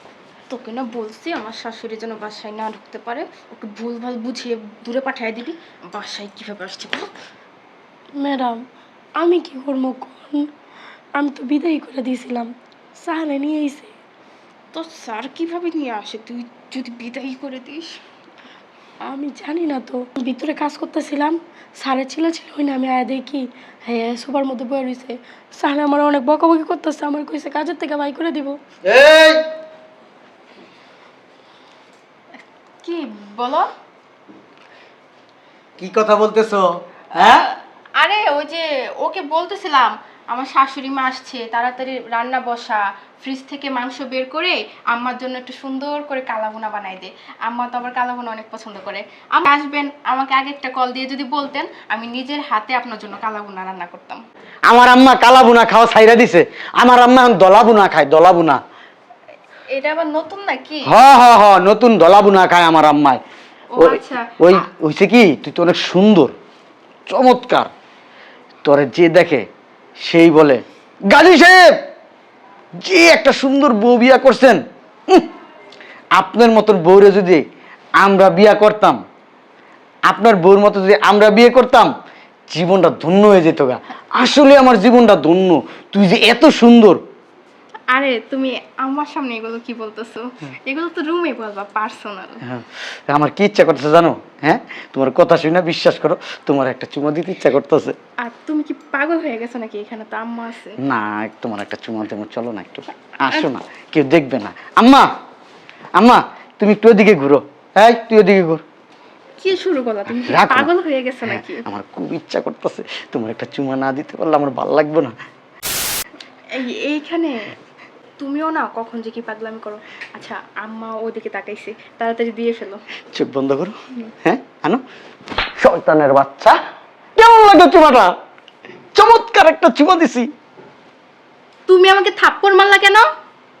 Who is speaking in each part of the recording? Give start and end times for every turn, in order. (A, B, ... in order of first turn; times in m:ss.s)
0:00.5-0:07.1 A
0:08.2-0:08.6 B
0:09.2-0:10.5 B
0:11.1-0:13.9 B
0:14.7-0:18.0 A
0:19.0-0:28.6 B
0:28.8-0:29.4 C
0:32.8-0:33.7 A
0:35.8-0:37.4 C
0:37.2-0:54.2 A
0:54.6-0:58.6 C
0:59.7-1:00.9 A
1:00.8-1:03.2 C
1:03.8-1:04.3 A
1:03.8-1:06.3 C
1:07.1-1:07.7 C
1:08.6-1:09.4 C
1:10.0-1:11.8 C
1:12.8-1:15.3 C
1:16.1-1:17.4 C
1:18.0-1:19.0 C
1:20.0-1:21.9 C
1:22.5-1:27.0 C
1:27.9-1:32.4 A
1:32.4-1:38.0 C
1:38.2-1:40.8 A
1:40.8-1:45.1 C
1:46.0-1:48.6 C
1:49.4-1:51.6 A
1:50.2-1:50.7 C
1:51.2-1:55.1 C
1:56.5-1:57.5 A
1:58.2-2:02.8 A
2:03.1-2:04.8 C
2:05.6-2:06.6 C
2:07.2-2:08.1 C
2:08.9-2:10.3 C
2:11.7-2:13.1 A